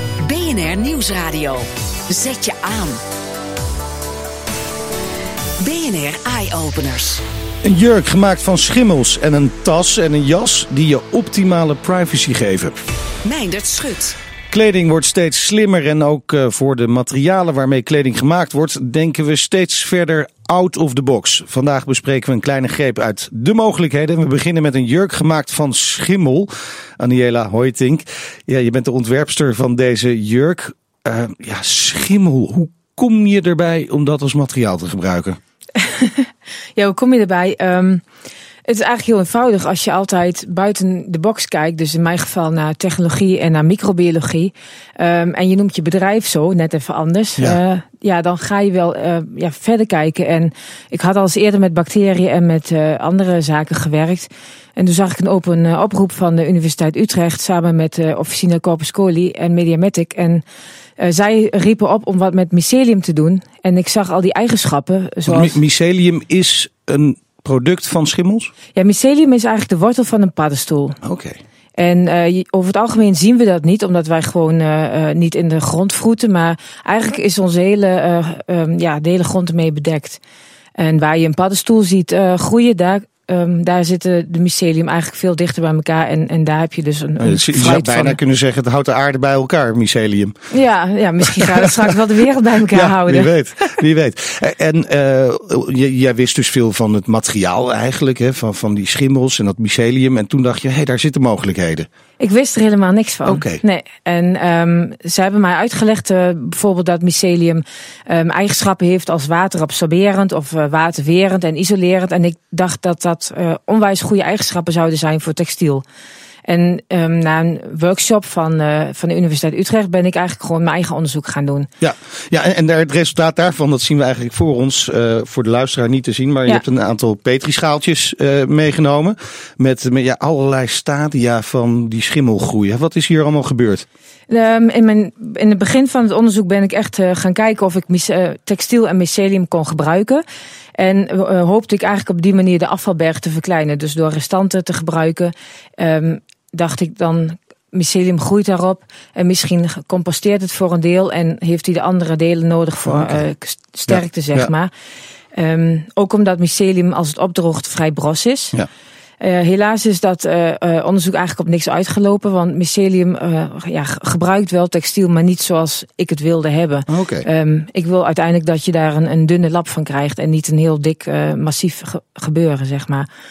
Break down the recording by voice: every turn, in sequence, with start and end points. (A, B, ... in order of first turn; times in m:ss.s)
0:00.2-0:03.0 A
0:05.6-0:07.2 A
0:07.6-0:12.8 B
0:13.2-0:14.2 A
0:14.5-0:35.4 B
0:35.8-0:38.0 C
0:38.7-1:00.4 C
1:01.0-1:05.6 C
1:05.3-1:08.5 B
1:08.7-1:11.0 C
1:11.0-1:11.4 B
1:11.8-1:20.2 C
1:20.8-1:28.2 C
1:27.2-1:30.3 B
1:30.5-1:33.3 C
1:31.2-1:31.9 B
1:32.7-1:41.9 B
1:42.2-1:55.8 C
1:43.2-1:43.6 B
1:56.5-2:01.7 C
2:01.8-2:13.8 B
2:14.3-2:20.2 C
2:20.8-2:34.7 C
2:32.8-2:33.2 B
2:33.9-2:34.5 B
2:35.3-2:38.5 C
2:39.2-2:53.1 C
2:46.9-2:47.2 B